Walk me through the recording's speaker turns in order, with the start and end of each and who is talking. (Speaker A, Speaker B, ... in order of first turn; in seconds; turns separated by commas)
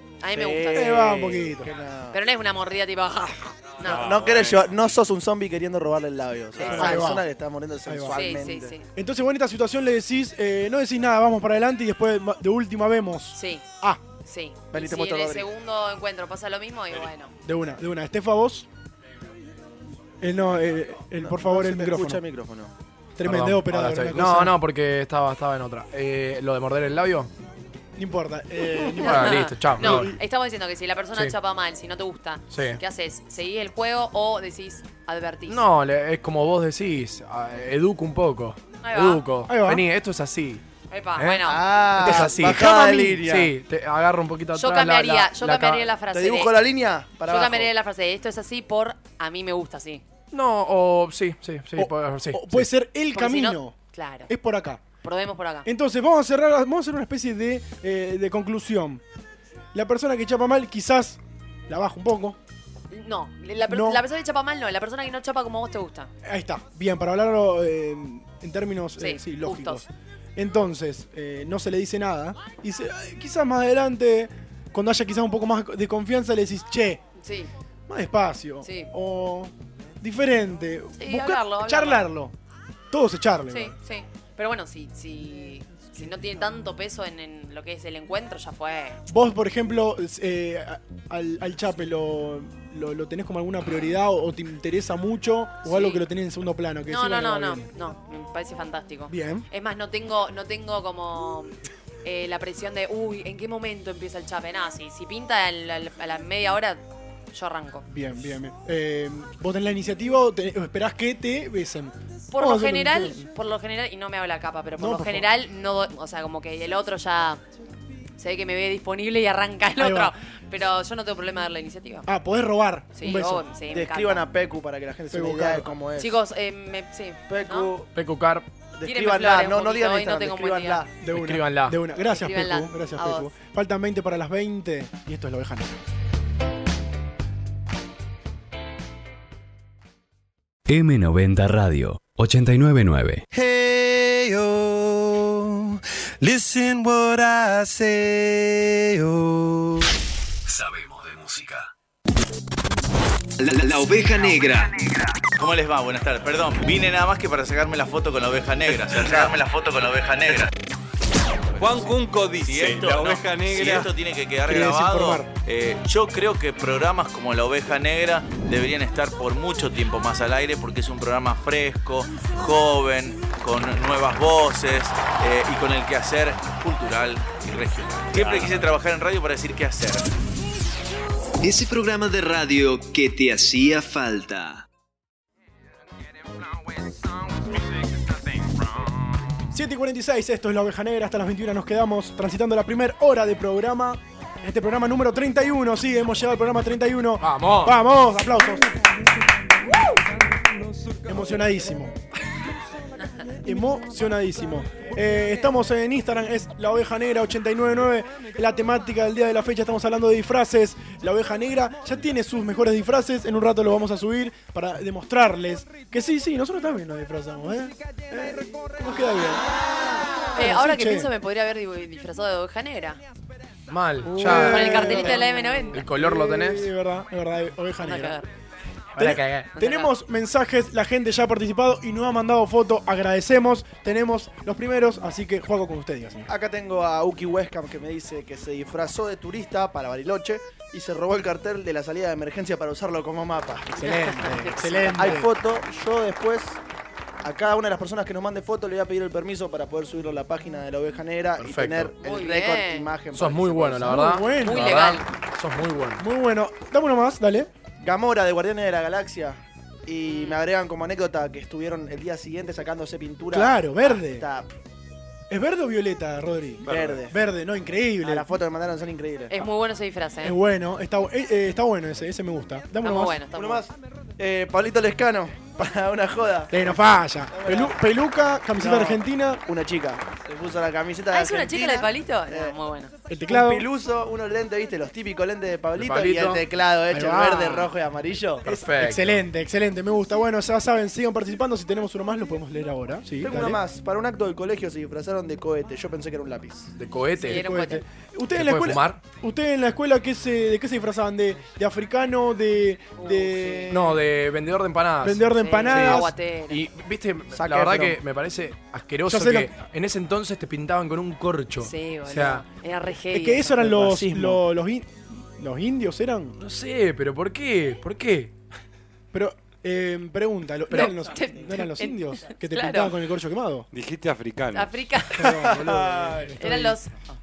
Speaker A: 0.2-1.1, Speaker B: 0.3-2.2, Speaker C: 0.7-1.7, Speaker A: 2.1-4.2, Speaker D: 3.8-5.0, Speaker B: 3.9-8.7, Speaker D: 6.6-7.0, Speaker C: 6.7-7.2, Speaker A: 6.7-7.2, Speaker C: 7.9-8.2, Speaker A: 8.1-8.9, Speaker C: 8.9-14.0, Speaker A: 13.3-17.3, Speaker B: 14.7-15.5, Speaker C: 17.4-18.7, Speaker C: 20.2-22.2, Speaker B: 21.2-22.7, Speaker C: 23.2-24.6, Speaker E: 23.2-27.3, Speaker C: 28.0-30.2, Speaker A: 28.9-35.6, Speaker E: 29.0-30.1, Speaker E: 32.5-32.8, Speaker E: 35.5-40.6, Speaker A: 38.8-39.3, Speaker C: 39.5-39.9, Speaker A: 40.9-41.8, Speaker E: 41.2-45.8, Speaker B: 41.4-43.5, Speaker C: 42.0-43.1, Speaker A: 44.5-46.6, Speaker B: 46.1-47.7, Speaker A: 47.2-50.0, Speaker E: 50.3-52.7, Speaker C: 51.8-54.9, Speaker A: 53.1-54.3, Speaker A: 55.0-55.7, Speaker C: 55.6-59.0, Speaker C: 59.7-62.4, Speaker A: 62.9-66.1, Speaker C: 63.7-64.0, Speaker C: 66.2-77.0, Speaker A: 69.0-69.8, Speaker A: 77.2-77.5, Speaker C: 77.9-82.3, Speaker A: 78.6-78.9, Speaker A: 81.0-82.1, Speaker C: 82.9-83.8, Speaker A: 83.5-89.0, Speaker C: 89.1-97.7, Speaker A: 95.6-96.0, Speaker A: 96.9-106.8, Speaker C: 99.1-99.5, Speaker A: 107.3-107.8, Speaker C: 107.9-113.2, Speaker A: 112.3-117.4, Speaker C: 114.8-115.3, Speaker A: 118.2-122.1, Speaker C: 119.8-120.1, Speaker C: 122.1-123.5, Speaker A: 123.0-124.3, Speaker B: 123.7-126.2, Speaker C: 125.1-125.7, Speaker A: 126.0-127.7, Speaker B: 127.3-127.9, Speaker E: 127.9-128.5, Speaker B: 128.8-130.9, Speaker A: 128.8-130.9, Speaker C: 131.0-135.8, Speaker E: 131.1-131.8, Speaker A: 132.1-133.3, Speaker F: 140.7-143.2, Speaker G: 143.3-149.9, Speaker F: 150.5-151.7, Speaker H: 153.4-154.8, Speaker I: 155.3-160.5, Speaker D: 159.0-159.3, Speaker D: 161.6-163.9, Speaker I: 162.4-180.1, Speaker C: 164.5-165.3, Speaker D: 178.1-178.7, Speaker H: 181.4-184.6, Speaker C: 189.5-198.9, Speaker E: 197.2-197.8, Speaker C: 201.1-202.0, Speaker C: 203.4-219.5, Speaker C: 220.3-221.1, Speaker A: 220.3-223.0, Speaker E: 223.7-225.2, Speaker C: 224.0-228.2, Speaker A: 224.2-225.9, Speaker E: 225.7-226.7, Speaker A: 227.8-228.3, Speaker E: 228.9-229.5, Speaker C: 229.0-236.3, Speaker A: 229.6-229.9, Speaker B: 236.3-244.2, Speaker C: 243.7-245.3, Speaker A: 244.2-245.1, Speaker B: 244.9-246.6, Speaker B: 247.2-254.0, Speaker E: 251.4-251.9, Speaker A: 252.0-252.9, Speaker E: 253.1-256.0, Speaker C: 253.8-254.8, Speaker A: 254.3-255.1, Speaker C: 256.0-257.5, Speaker B: 257.8-264.5, Speaker C: 263.3-264.3, Speaker C: 265.3-268.3, Speaker D: 266.6-267.0, Speaker B: 266.6-267.2, Speaker B: 268.0-269.5, Speaker A: 269.3-270.4, Speaker C: 270.2-273.2, Speaker A: 272.8-273.6, Speaker B: 273.3-276.8, Speaker C: 276.5-279.4, Speaker B: 277.3-277.8, Speaker B: 278.5-282.6, Speaker A: 281.1-282.9, Speaker C: 283.1-283.7, Speaker B: 283.3-288.5, Speaker E: 285.8-286.4, Speaker C: 286.9-287.7, Speaker E: 288.4-289.2, Speaker C: 288.4-293.6, Speaker B: 293.2-296.7, Speaker E: 296.8-297.4, Speaker A: 297.2-297.9, Speaker C: 297.3-304.0, Speaker E: 298.4-299.0, Speaker A: 303.0-303.8, Speaker E: 303.7-312.5, Speaker C: 305.0-306.1, Speaker A: 305.3-306.6, Speaker B: 307.3-308.0, Speaker C: 309.1-309.5, Speaker A: 311.6-313.6, Speaker C: 313.1-316.4, Speaker B: 313.6-314.4, Speaker E: 316.4-318.3, Speaker C: 319.1-323.7, Speaker A: 320.7-322.9, Speaker D: 323.7-324.8, Speaker A: 324.5-325.5, Speaker C: 325.1-326.8, Speaker B: 325.2-326.6, Speaker A: 326.4-326.9